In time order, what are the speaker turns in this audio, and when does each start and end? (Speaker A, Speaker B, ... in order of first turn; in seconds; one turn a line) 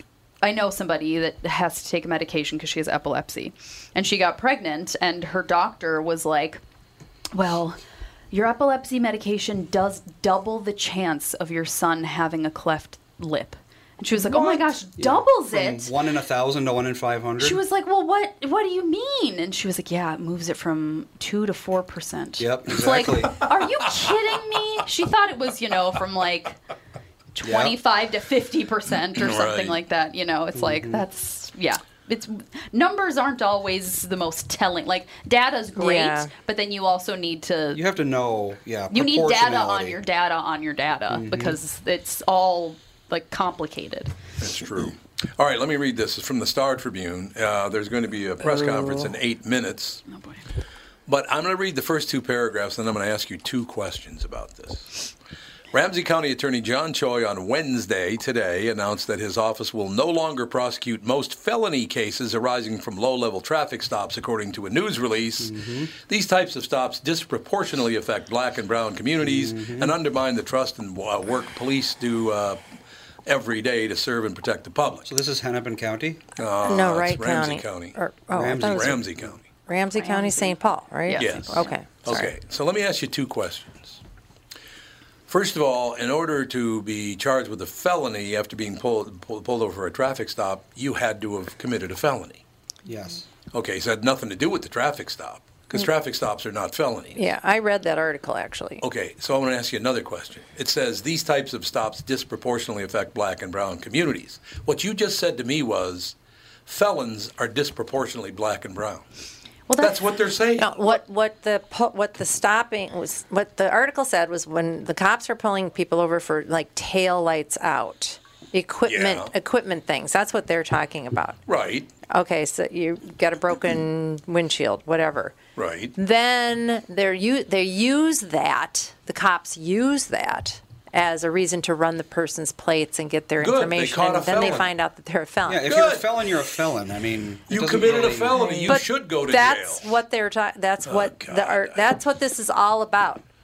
Speaker A: 0.4-6.6
Speaker A: 7.3-7.8
Speaker A: 8.3-15.9
Speaker B: 14.2-17.6
Speaker A: 17.4-26.6
Speaker B: 22.4-23.4
Speaker A: 27.3-37.8
Speaker B: 27.4-27.7
Speaker C: 29.1-29.8
Speaker B: 30.6-31.0
Speaker D: 35.8-36.3
Speaker B: 37.7-40.0
Speaker A: 38.9-44.1
Speaker B: 41.1-41.6
Speaker C: 44.4-50.0
Speaker D: 48.4-49.1
Speaker A: 50.1-50.4
Speaker C: 51.1-55.0
Speaker C: 55.7-72.6
Speaker B: 65.4-65.9
Speaker B: 69.2-69.9
Speaker C: 73.2-75.1
Speaker B: 75.0-76.2
Speaker C: 76.4-78.0
Speaker D: 76.6-79.0
Speaker B: 78.3-79.3
Speaker C: 78.6-79.4
Speaker D: 79.7-82.3
Speaker A: 79.9-81.7
Speaker C: 81.1-84.0
Speaker C: 85.3-92.4
Speaker B: 92.8-93.2
Speaker C: 93.5-97.2
Speaker D: 97.2-98.8
Speaker C: 98.8-109.0
Speaker A: 109.7-109.9
Speaker C: 109.8-110.8
Speaker D: 110.6-121.4
Speaker C: 118.8-119.3
Speaker C: 121.5-121.9
Speaker D: 122.1-125.3
Speaker C: 125.5-125.9
Speaker D: 126.0-135.7
Speaker C: 133.4-134.7
Speaker B: 135.4-138.8
Speaker C: 135.7-136.6
Speaker C: 137.5-139.9
Speaker D: 138.3-143.2
Speaker C: 140.8-141.8